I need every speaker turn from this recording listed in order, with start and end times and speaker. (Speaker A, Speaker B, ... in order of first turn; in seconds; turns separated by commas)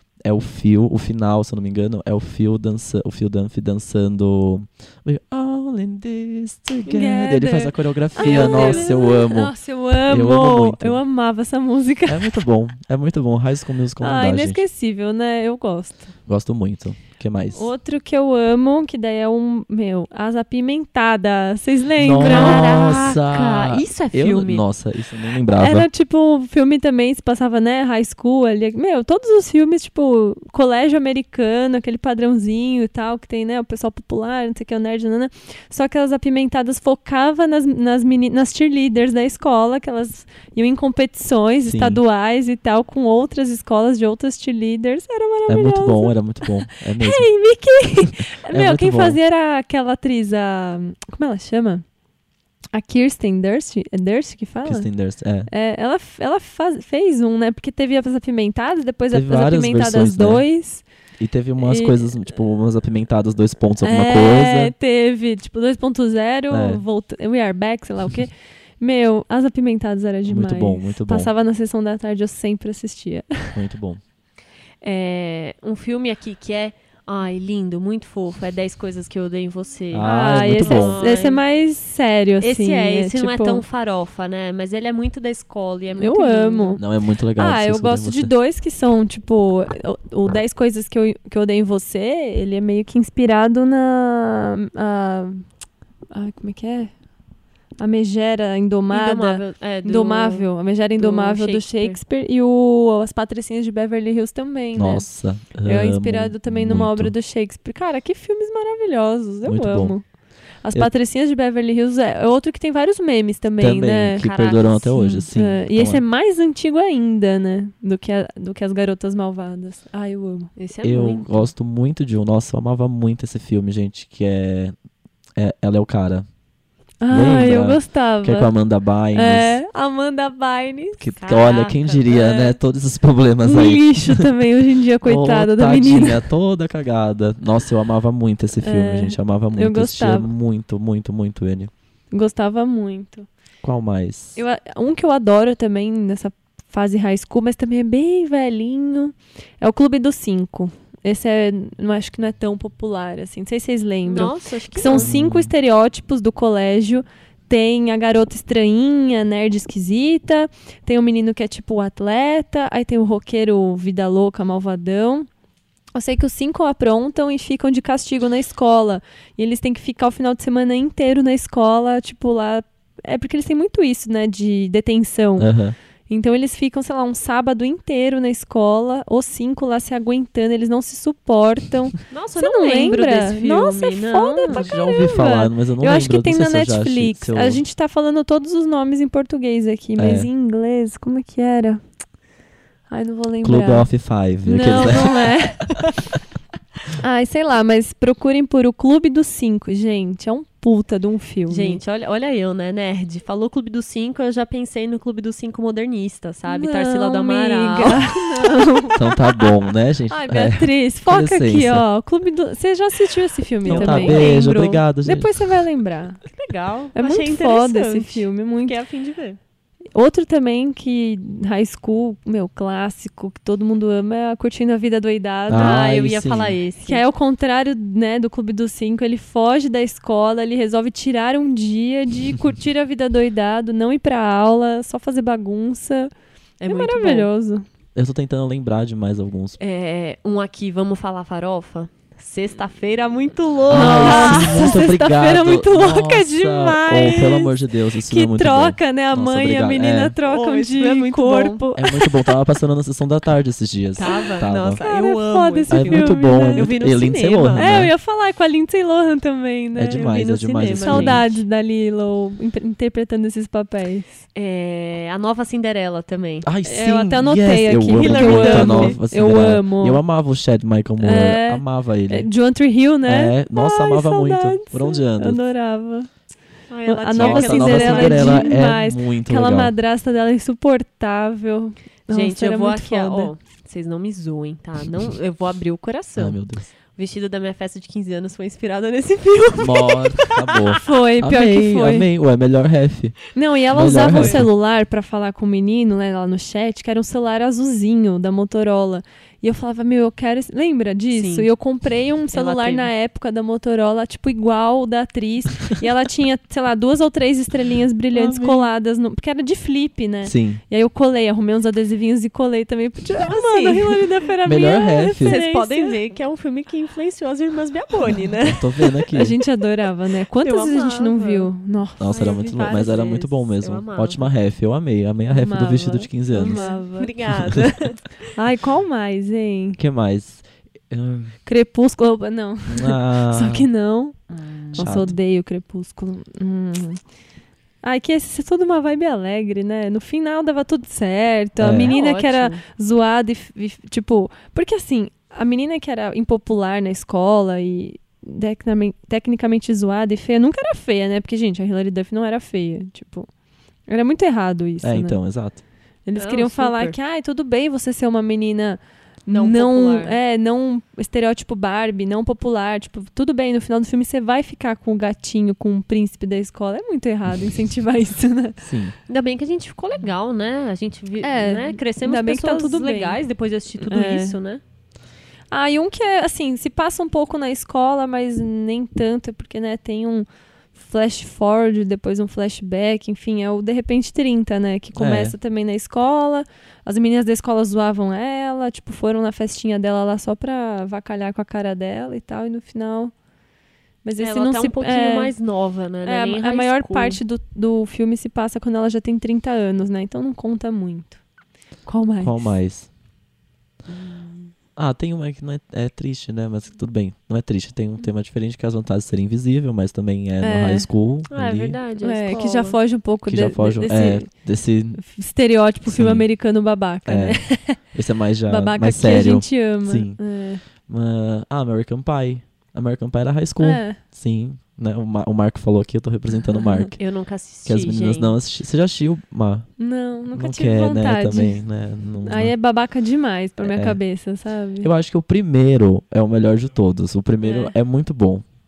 Speaker A: 0.2-9.5, Speaker B: 6.9-12.4, Speaker C: 8.2-8.9, Speaker A: 10.1-11.0, Speaker A: 12.1-14.6, Speaker B: 14.0-16.1, Speaker A: 16.3-17.7, Speaker B: 17.5-23.0, Speaker A: 22.0-25.9, Speaker C: 22.2-24.6, Speaker B: 25.5-51.8, Speaker A: 41.6-42.0, Speaker A: 45.5-47.3, Speaker A: 48.0-49.2, Speaker B: 52.7-54.9, Speaker A: 54.6-55.5, Speaker B: 55.5-60.8, Speaker A: 59.1-60.5, Speaker A: 61.2-64.7, Speaker B: 61.6-62.0, Speaker B: 63.8-73.6, Speaker A: 66.5-66.8, Speaker A: 70.3-71.3, Speaker A: 73.5-74.0, Speaker C: 74.8-81.4, Speaker A: 79.9-81.0, Speaker B: 80.0-83.6, Speaker C: 82.4-86.8, Speaker B: 86.0-86.8, Speaker A: 86.8-88.3, Speaker B: 87.4-95.4, Speaker B: 96.1-96.9, Speaker B: 97.8-105.1, Speaker C: 98.9-100.5, Speaker C: 101.0-102.0, Speaker A: 104.8-107.1, Speaker B: 105.6-110.0, Speaker A: 109.5-110.0, Speaker B: 110.6-120.5, Speaker A: 113.6-116.0, Speaker C: 120.6-121.5, Speaker A: 120.8-124.7, Speaker A: 125.4-126.3, Speaker B: 127.0-128.5, Speaker A: 127.1-129.6, Speaker B: 129.1-131.1, Speaker A: 131.0-134.2, Speaker C: 131.2-132.1, Speaker B: 132.1-132.4, Speaker B: 133.4-136.2, Speaker A: 135.0-141.7, Speaker B: 138.6-140.3, Speaker B: 142.1-143.3, Speaker A: 143.6-144.4, Speaker B: 144.4-165.3, Speaker C: 154.1-155.1, Speaker A: 154.9-155.5, Speaker B: 165.9-175.5, Speaker A: 175.4-175.8, Speaker B: 176.1-191.8, Speaker C: 182.1-184.7, Speaker A: 184.5-187.6, Speaker A: 190.0-190.3, Speaker B: 192.9-193.9, Speaker A: 193.4-195.4, Speaker B: 194.4-196.1, Speaker B: 197.0-201.8, Speaker C: 201.5-208.9, Speaker B: 206.5-209.0, Speaker A: 209.0-211.8, Speaker B: 210.1-216.2, Speaker C: 213.7-214.5, Speaker A: 213.7-215.3, Speaker C: 216.3-219.4, Speaker B: 216.9-218.8, Speaker B: 219.9-226.1, Speaker A: 225.5-226.6, Speaker C: 225.5-227.0, Speaker B: 226.8-236.1, Speaker C: 236.6-237.3, Speaker B: 236.7-237.7, Speaker A: 238.0-239.6, Speaker C: 239.6-244.8, Speaker A: 243.7-250.2, Speaker B: 243.7-252.3, Speaker C: 250.2-251.6, Speaker A: 251.8-254.8, Speaker C: 254.0-257.7, Speaker B: 254.0-256.8, Speaker A: 255.7-257.9, Speaker B: 257.6-260.1, Speaker A: 259.8-261.2, Speaker C: 259.9-261.4, Speaker B: 260.8-264.2, Speaker C: 264.4-266.5, Speaker A: 266.4-272.3, Speaker B: 266.7-270.0, Speaker C: 267.9-269.0, Speaker B: 271.0-276.1, Speaker A: 273.1-275.4, Speaker C: 276.7-278.6, Speaker B: 276.9-283.3, Speaker A: 277.1-279.7, Speaker C: 282.1-286.4, Speaker A: 286.2-286.7, Speaker C: 286.9-290.8, Speaker A: 289.6-293.2, Speaker B: 290.8-292.1, Speaker B: 293.3-316.0, Speaker A: 293.7-294.5, Speaker C: 293.8-294.4, Speaker C: 301.1-301.5, Speaker C: 302.3-302.9, Speaker C: 308.1-308.7, Speaker A: 310.2-310.6, Speaker C: 313.2-314.0, Speaker A: 314.4-315.4, Speaker C: 315.2-318.9, Speaker A: 318.4-319.4, Speaker B: 319.1-323.1, Speaker C: 320.4-321.5, Speaker A: 322.0-326.7, Speaker C: 322.1-324.3, Speaker B: 325.3-327.1, Speaker C: 326.3-328.3, Speaker B: 328.4-329.8, Speaker A: 329.8-331.4, Speaker B: 331.5-334.2, Speaker A: 332.7-333.7, Speaker C: 334.3-335.1, Speaker B: 334.7-337.0, Speaker A: 334.8-335.1, Speaker B: 337.8-353.3, Speaker A: 341.6-341.9, Speaker C: 341.8-342.6, Speaker B: 353.9-355.2, Speaker A: 354.8-355.6, Speaker B: 356.1-368.6, Speaker C: 356.2-357.0, Speaker C: 359.3-360.2, Speaker A: 368.6-368.9, Speaker C: 369.1-374.6, Speaker B: 371.2-373.2, Speaker B: 373.8-374.4, Speaker B: 375.5-393.1, Speaker A: 385.0-385.4, Speaker B: 394.1-395.3, Speaker C: 394.2-397.2, Speaker B: 396.1-401.2, Speaker B: 401.9-402.5, Speaker A: 402.2-402.9, Speaker C: 403.9-404.5, Speaker A: 404.8-411.8, Speaker B: 410.4-410.9, Speaker C: 411.3-412.8, Speaker B: 412.0-414.3, Speaker A: 413.2-415.0, Speaker B: 415.0-417.8, Speaker A: 415.9-416.3, Speaker A: 417.1-417.4, Speaker A: 417.9-420.2, Speaker B: 418.5-420.6, Speaker A: 420.9-427.0, Speaker B: 423.6-424.0, Speaker B: 426.6-426.9, Speaker C: 427.0-428.4, Speaker A: 427.6-429.7, Speaker B: 429.8-431.6, Speaker A: 430.3-432.5, Speaker B: 432.2-434.9, Speaker A: 433.6-434.0, Speaker A: 434.8-438.4, Speaker B: 437.4-437.7